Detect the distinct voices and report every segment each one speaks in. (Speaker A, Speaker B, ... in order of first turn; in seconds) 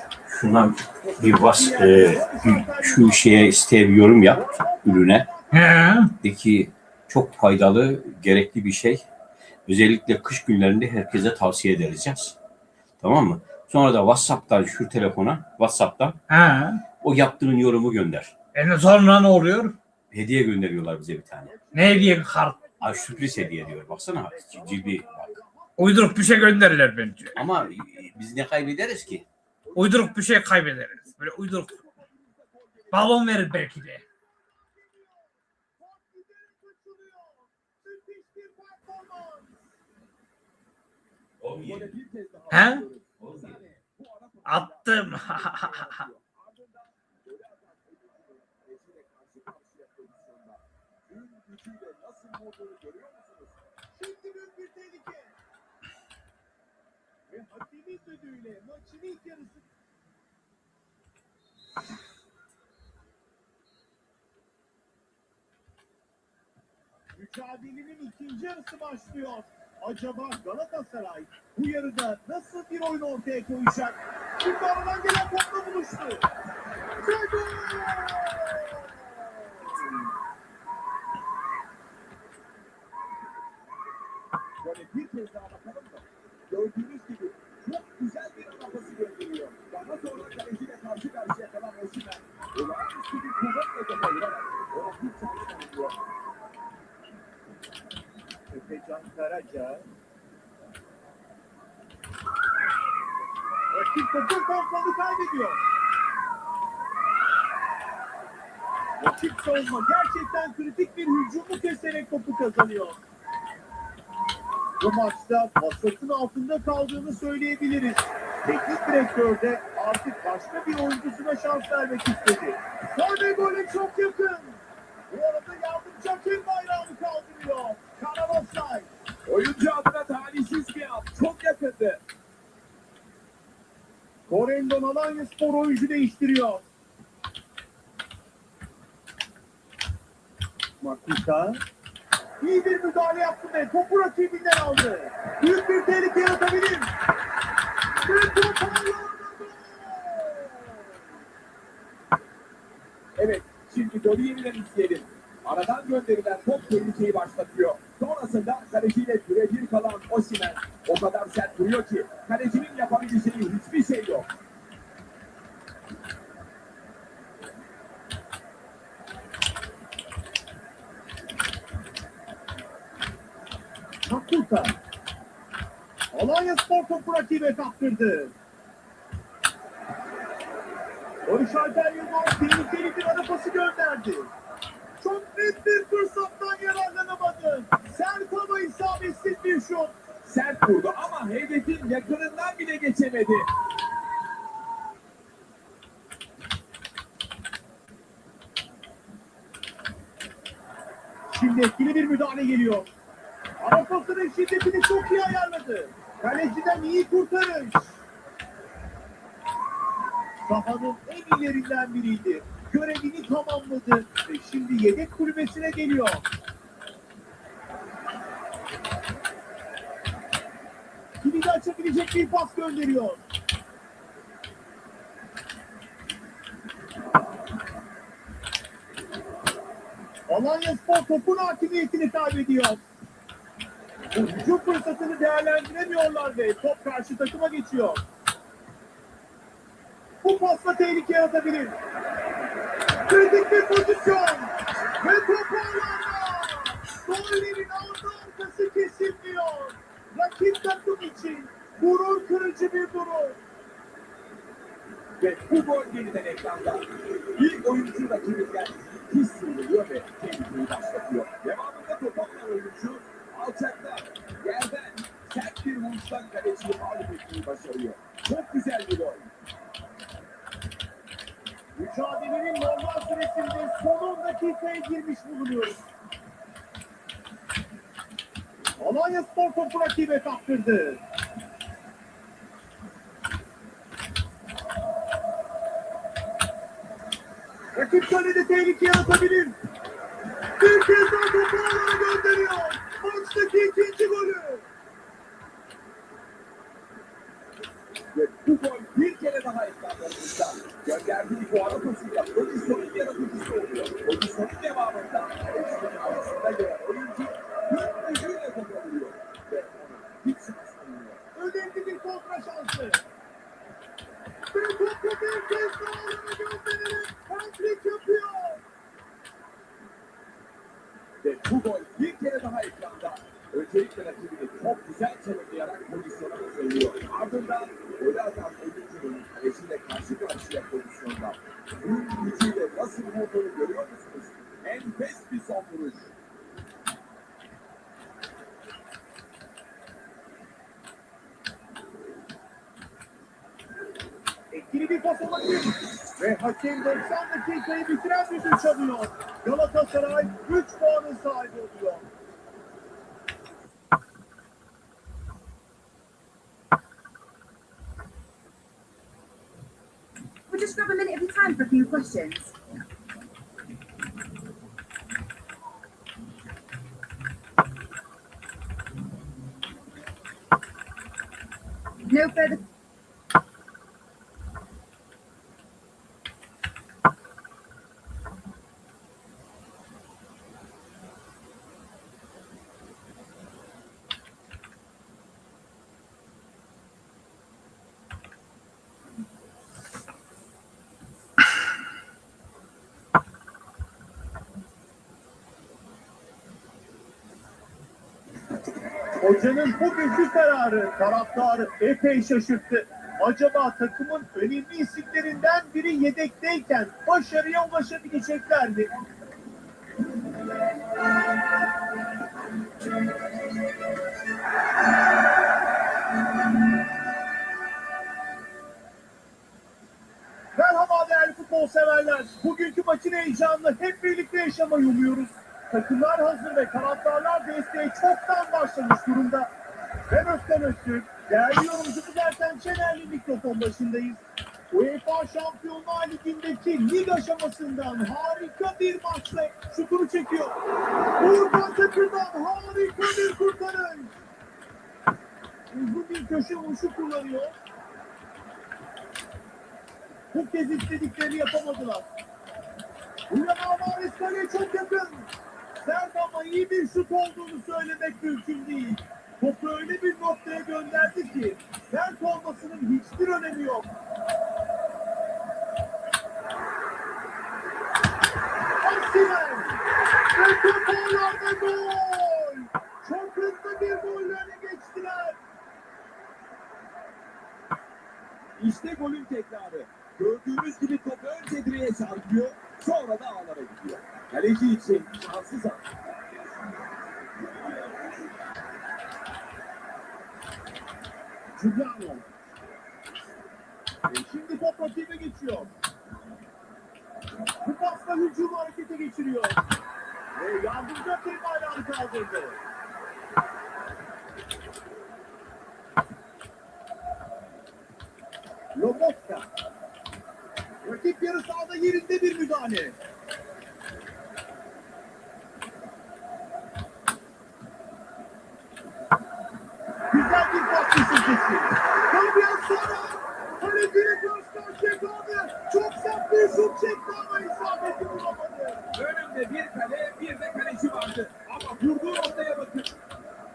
Speaker A: 0.3-5.3, 6.2-9.0, 9.7-12.3, 13.0-16.2, 17.0-18.3, 20.1-21.5, 22.8-25.3, 27.4-29.2, 41.4-41.9, 43.2-43.6
Speaker B: 1.0-3.6, 4.2-6.0, 21.4-26.9, 33.8-39.6, 53.9-55.4, 57.3-59.6, 67.1-76.3, 77.0-79.9, 98.5-99.9, 103.7-105.6, 109.0-113.0, 114.8-128.9, 134.3-136.6, 140.8-141.6, 142.4-146.9, 148.0-151.0, 174.0-174.8, 176.1-178.3, 181.2-184.3, 185.0-189.9, 201.3-202.9, 203.6-208.0, 210.4-216.2, 221.2-223.2, 230.3-232.8, 234.1-238.0, 240.2-241.8, 243.0-253.4, 271.7-275.8, 278.8-281.0, 287.7-289.6, 290.6-294.7, 311.3-313.0, 314.5-318.6, 344.5-352.1, 399.2-408.9, 420.5-429.5, 430.1-440.6, 441.1-444.1, 445.7-447.6, 450.3-452.1, 453.3-455.3, 455.8-463.9, 468.8-475.4, 491.6-492.2, 494.1-495.7, 497.6-499.6, 500.3-502.6, 508.7-509.5, 510.8-513.0, 520.1-528.8
Speaker C: 5.5-6.1, 16.3-16.8, 18.5-19.7, 21.7-22.6, 25.8-27.4, 29.7-31.8, 32.9-34.0, 42.5-42.8, 44.5-46.0
Speaker D: 29.6-33.9, 41.6-53.6, 84.6-96.0, 129.2-132.0, 153.2-164.3, 190.2-193.5, 255.2-269.3, 298.1-311.2, 321.2-336.1, 478.6-485.8, 528.9-532.9
Speaker E: 360.5-362.5, 372.1-372.6